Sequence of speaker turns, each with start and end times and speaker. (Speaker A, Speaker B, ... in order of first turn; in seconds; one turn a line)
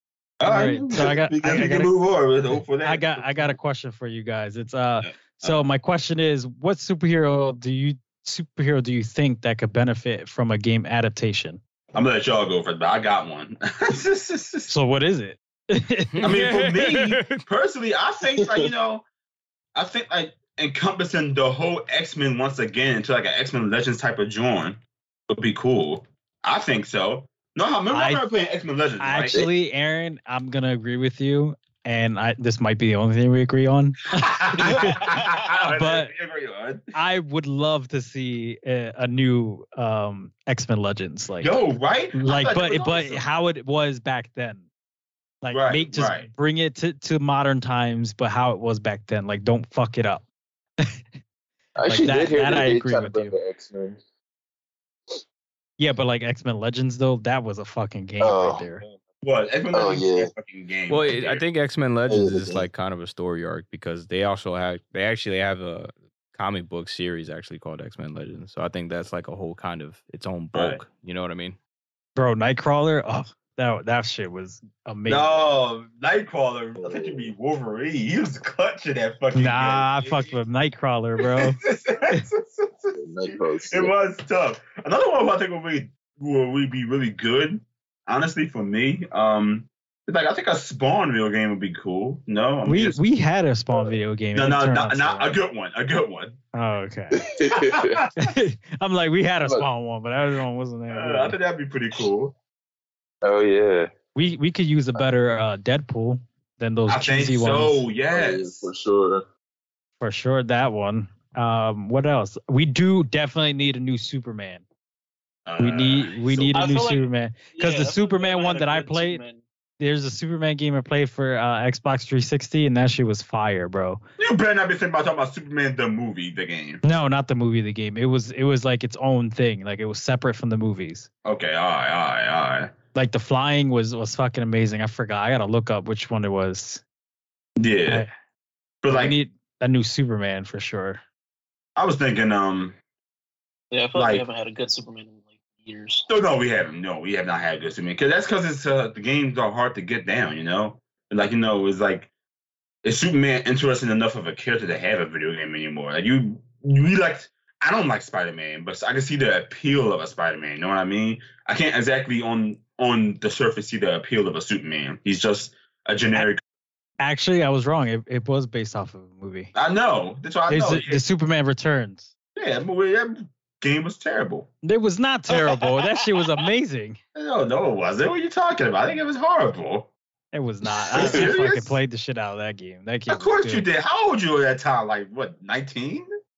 Speaker A: 0.4-3.2
Speaker B: 0.4-1.9
Speaker B: 2.8-11.6
Speaker A: 5.0-5.7
Speaker A: 11.9-14.7
Speaker B: 14.7-16.2
Speaker C: 16.1-17.4
Speaker A: 16.2-19.1
Speaker A: 19.7-29.4
Speaker B: 27.9-28.3
Speaker B: 29.0-35.1
Speaker A: 34.2-36.8
Speaker B: 35.7-36.1
Speaker B: 36.9-41.5
Speaker A: 41.4-43.2
Speaker B: 42.1-44.6
Speaker B: 45.4-50.2
Speaker A: 45.5-46.3
Speaker D: 51.8-54.0
Speaker B: 51.9-53.4
Speaker B: 55.8-58.8
Speaker D: 58.2-59.0
Speaker A: 59.2-61.4
Speaker D: 59.7-60.3
Speaker C: 60.9-71.6
Speaker D: 62.1-62.7
Speaker A: 70.5-70.8
Speaker B: 72.2-75.3
Speaker A: 75.1-80.4
Speaker D: 76.8-77.3
Speaker B: 79.3-82.2
Speaker A: 81.2-93.0
Speaker D: 82.9-83.9
Speaker B: 92.6-95.4
Speaker A: 94.3-96.4
Speaker B: 96.5-97.2
Speaker D: 97.1-98.0
Speaker A: 97.5-98.1
Speaker B: 98.2-101.4
Speaker A: 100.9-102.3
Speaker D: 103.2-103.9
Speaker B: 104.1-107.8
Speaker A: 106.9-108.7
Speaker D: 108.1-109.3
Speaker B: 110.0-114.6
Speaker A: 115.5-116.5
Speaker B: 115.6-119.2
Speaker E: 116.5-119.4
Speaker B: 119.8-124.0
Speaker A: 124.2-126.8
Speaker B: 126.8-131.1
Speaker A: 131.2-132.7
Speaker B: 132.9-136.8
Speaker A: 137.6-138.1
Speaker A: 138.8-139.2
Speaker B: 138.9-141.0
Speaker A: 141.8-142.8
Speaker E: 143.7-146.1
Speaker A: 143.9-144.3
Speaker A: 146.1-152.1
Speaker A: 152.8-166.4
Speaker B: 167.0-169.5
Speaker A: 169.5-171.0
Speaker B: 170.5-172.1
Speaker A: 172.4-174.5
Speaker B: 174.6-177.0
Speaker A: 177.1-179.9
Speaker B: 180.3-183.7
Speaker A: 180.9-181.8
Speaker D: 180.9-181.2
Speaker A: 183.1-186.1